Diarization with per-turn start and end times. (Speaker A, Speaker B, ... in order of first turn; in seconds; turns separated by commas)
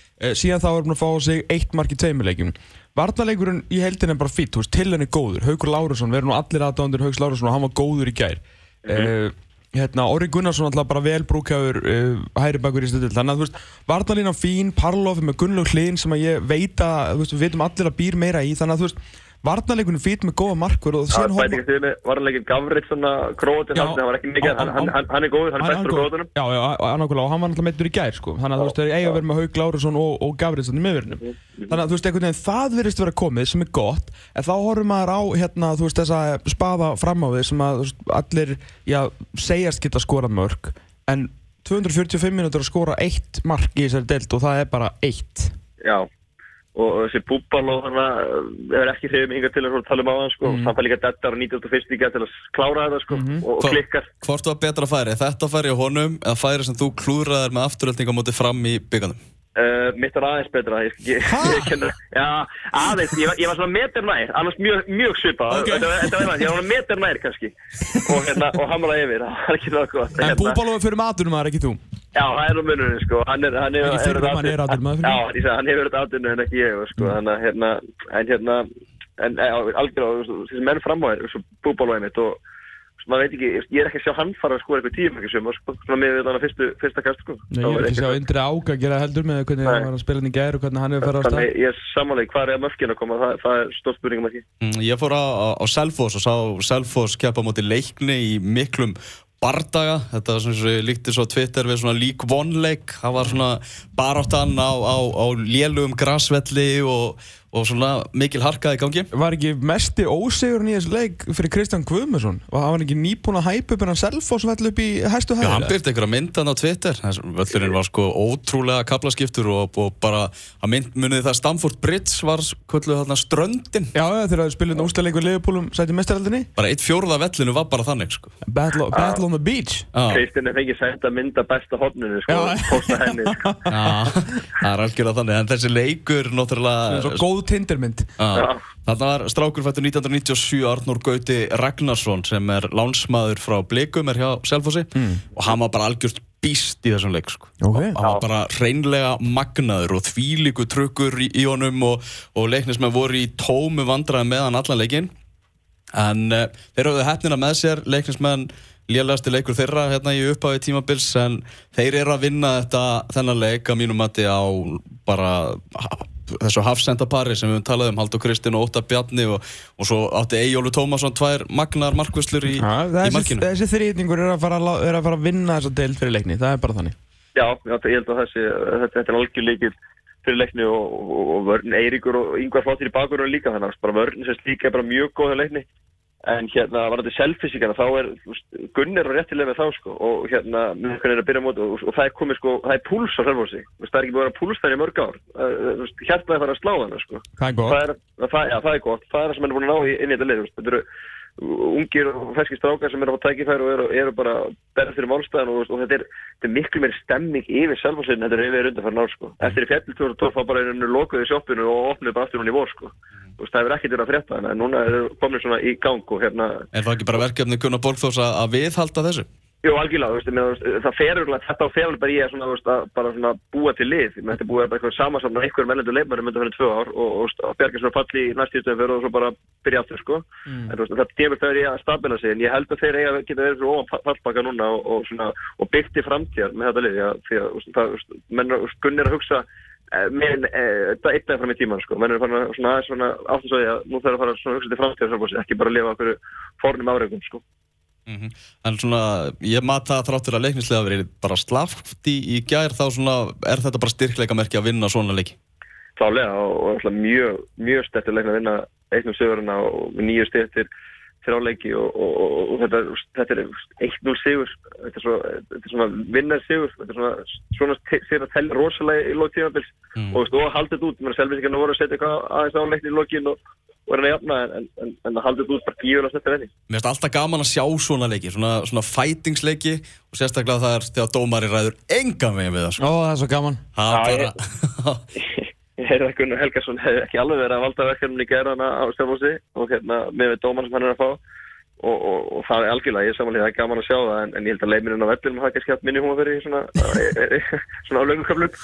Speaker A: 0.2-21.6, Speaker B: 8.8-9.1, Speaker B: 21.1-26.3, Speaker A: 23.7-25.0, Speaker A: 25.6-45.5, Speaker B: 28.6-29.2, Speaker B: 45.8-46.1, Speaker B: 46.7-54.1, Speaker A: 50.4-50.7, Speaker A: 53.1-53.4, Speaker C: 53.6-59.2, Speaker B: 59.5-70.6, Speaker A: 61.2-61.8, Speaker A: 65.5-66.4, Speaker A: 70.2-71.8, Speaker B: 72.1-78.7, Speaker A: 73.8-75.2, Speaker B: 79.2-82.4, Speaker B: 83.0-88.2, Speaker A: 87.5-91.5, Speaker B: 91.0-94.4, Speaker C: 94.6-109.1, Speaker A: 109.1-115.7, Speaker C: 115.4-123.9, Speaker A: 123.9-126.5, Speaker C: 126.5-128.3, Speaker A: 128.4-129.9, Speaker B: 128.9-129.2, Speaker C: 129.9-130.2, Speaker B: 130.1-133.4, Speaker A: 132.3-133.9, Speaker C: 133.7-137.2, Speaker A: 136.9-138.1, Speaker C: 138.2-155.1, Speaker B: 138.3-138.6, Speaker A: 144.9-145.2, Speaker A: 147.6-148.0, Speaker C: 155.9-173.4, Speaker A: 172.5-176.9, Speaker B: 177.3-185.7, Speaker B: 186.2-200.8, Speaker A: 197.4-197.8, Speaker B: 201.4-216.7, Speaker C: 216.7-219.3, Speaker B: 219.6-247.4, Speaker C: 248.1-255.3, Speaker B: 256.0-260.7, Speaker B: 261.2-276.5, Speaker C: 269.9-270.2, Speaker C: 276.7-282.8, Speaker A: 282.8-283.6, Speaker C: 283.7-285.0, Speaker B: 283.9-284.3, Speaker B: 285.1-291.2, Speaker B: 291.8-298.6